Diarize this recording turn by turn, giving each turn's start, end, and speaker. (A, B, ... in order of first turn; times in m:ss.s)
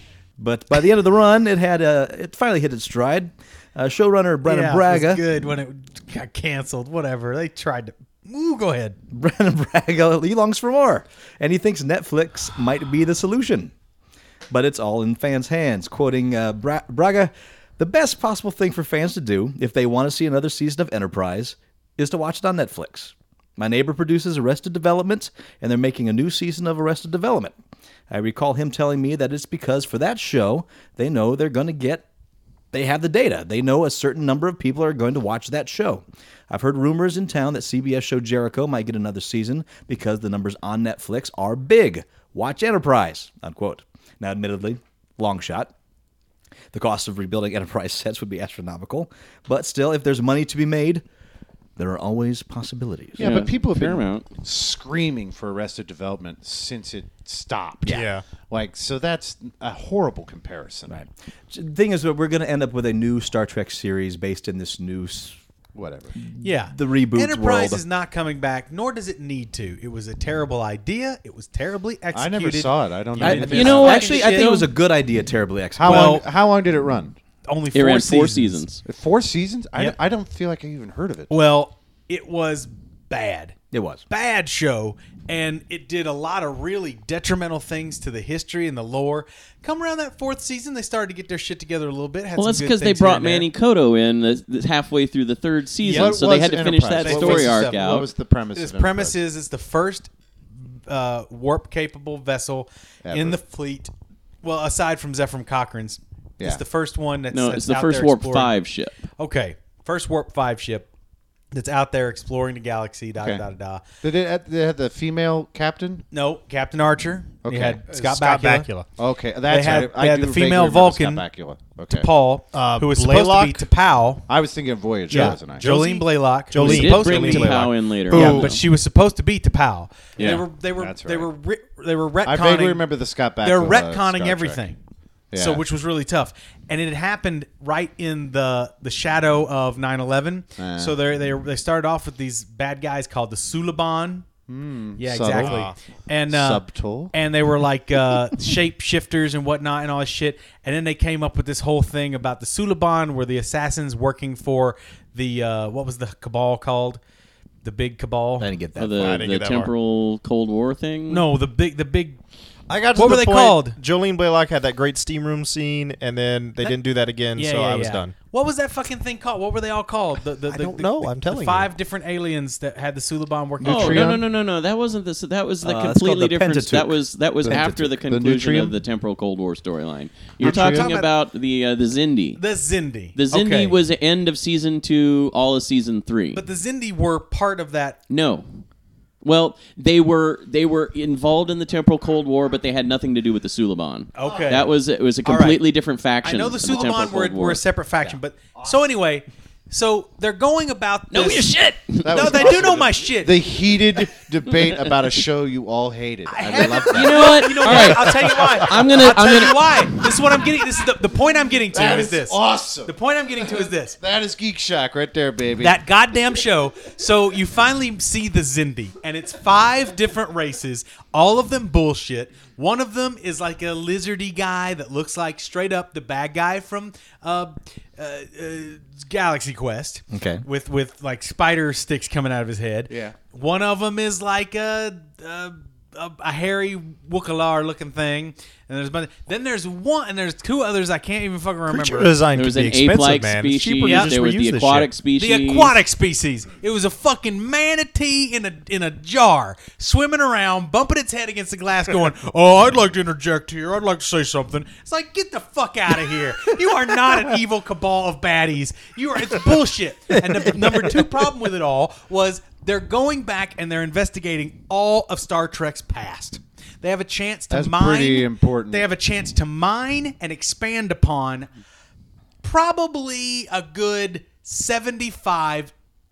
0:00.4-0:05.2 A
0:04.4-0:09.0 B
0:09.1-0:13.7 A
0:14.5-0:27.6 A
0:28.1-0:32.0 A
0:32.7-0:45.7 A
0:46.7-0:51.0 A
0:51.8-0:53.2 A
0:53.2-1:01.0 C
0:53.2-0:54.3 D
0:57.9-0:58.2 E
1:00.9-1:05.4 A
1:05.8-1:06.1 C
1:06.2-1:07.8 A
1:06.4-1:14.6 B
1:12.1-1:14.1 C
1:13.2-1:16.2 A
1:13.3-1:14.7 D
1:15.8-1:17.2 C
1:15.8-1:16.2 B
1:17.5-1:18.6 B
1:17.7-1:18.8 D
1:18.8-1:21.3 C
1:21.3-1:23.6 B
1:23.7-1:24.0 A
1:24.1-1:33.5 B
1:32.4-1:38.1 D
1:35.8-1:36.2 B
1:35.9-1:39.2 C
1:37.0-1:40.1 B
1:40.7-1:43.9 B
1:43.0-1:43.4 C
1:44.4-1:48.5 B
1:47.3-1:49.0 D
1:49.2-1:50.9 B
1:51.5-1:53.8 B
1:54.0-1:56.0 C
1:56.1-1:58.7 B
1:57.4-1:57.8 C
1:57.9-1:58.9 E
1:59.0-2:02.1 C
1:59.5-2:01.2 B
2:01.9-2:04.3 B
2:02.5-2:03.6 E
2:04.3-2:05.7 C
2:05.1-2:12.9 B
2:05.1-2:08.5 E
2:06.6-2:08.6 D
2:10.2-2:11.3 C
2:12.2-2:14.6 C
2:13.4-2:14.8 B
2:15.3-2:15.6 C
2:15.3-2:24.3 B
2:20.6-2:21.0 C
2:24.5-2:25.7 C
2:25.0-2:37.0 B
2:25.4-2:25.7 E
2:26.3-2:27.1 C
2:37.6-2:38.5 B
2:38.4-2:39.2 A
2:38.8-2:41.2 D
2:38.9-2:39.7 E
2:41.1-2:42.2 B
2:42.7-2:48.1 E
2:43.0-2:43.8 B
2:47.4-2:54.2 B
2:50.5-2:51.7 E
2:53.6-2:54.2 C
2:53.6-3:02.4 D
2:55.6-2:57.9 A
2:58.1-2:58.8 C
3:00.4-3:00.9 C
3:00.4-3:01.1 B
3:02.4-3:03.8 B
3:03.2-3:06.4 D
3:06.3-3:08.0 B
3:08.1-3:08.6 D
3:09.2-3:17.6 D
3:14.2-3:14.7 B
3:15.2-3:15.6 B
3:16.2-3:23.4 B
3:21.1-3:22.3 D
3:22.0-3:27.9 C
3:26.3-3:34.0 B
3:26.9-3:30.0 D
3:31.7-3:35.8 C
3:35.6-4:02.2 B
3:50.1-3:50.4 A
3:52.9-3:53.2 C
4:01.7-4:04.9 E
4:02.3-4:05.8 D
4:03.8-4:04.1 B
4:05.2-4:31.5 B
4:20.5-4:21.1 A
4:27.5-4:28.9 C
4:32.4-4:35.7 B